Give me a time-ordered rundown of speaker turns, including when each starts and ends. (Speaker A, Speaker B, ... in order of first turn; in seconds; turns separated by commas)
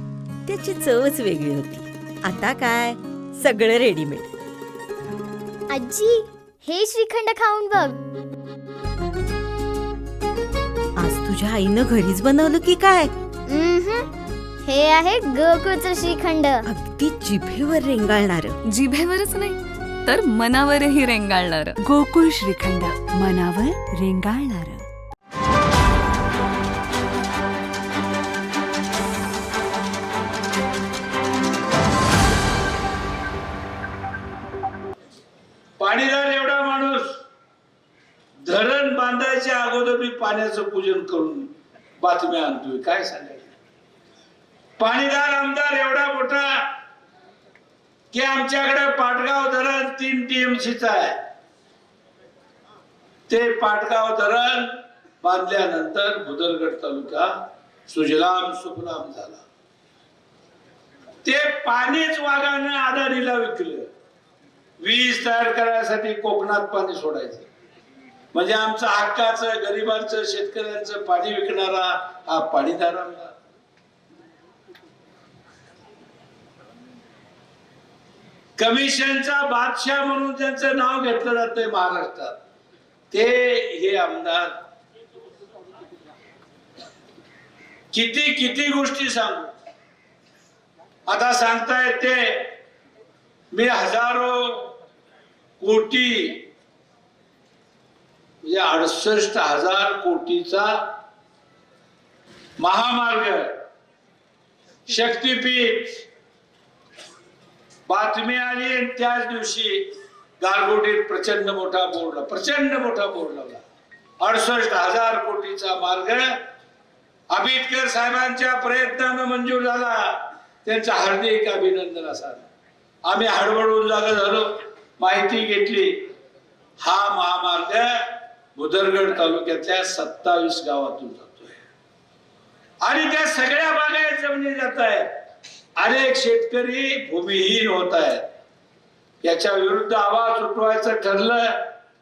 Speaker A: 0.5-4.3, Speaker B: 5.7-8.0, Speaker A: 11.0-13.1, Speaker B: 13.5-14.1, Speaker B: 14.6-16.6, Speaker A: 16.6-18.6, Speaker C: 18.7-21.8, Speaker D: 21.8-24.8, Speaker E: 35.8-37.2, Speaker E: 38.4-43.5, Speaker E: 44.8-46.6, Speaker E: 48.1-51.2, Speaker E: 53.3-59.4, Speaker E: 61.2-63.9, Speaker E: 64.8-67.5, Speaker E: 68.3-73.3, Speaker E: 78.6-82.4, Speaker E: 83.1-84.5, Speaker E: 87.9-89.5, Speaker E: 91.1-92.6, Speaker E: 93.5-94.8, Speaker E: 95.6-96.5, Speaker E: 98.4-100.9, Speaker E: 102.6-103.6, Speaker E: 104.9-106.0, Speaker E: 107.8-113.6, Speaker E: 114.2-116.4, Speaker E: 117.3-122.5, Speaker E: 123.0-126.1, Speaker E: 126.8-131.6, Speaker E: 132.8-135.1, Speaker E: 135.8-138.3, Speaker E: 139.2-141.6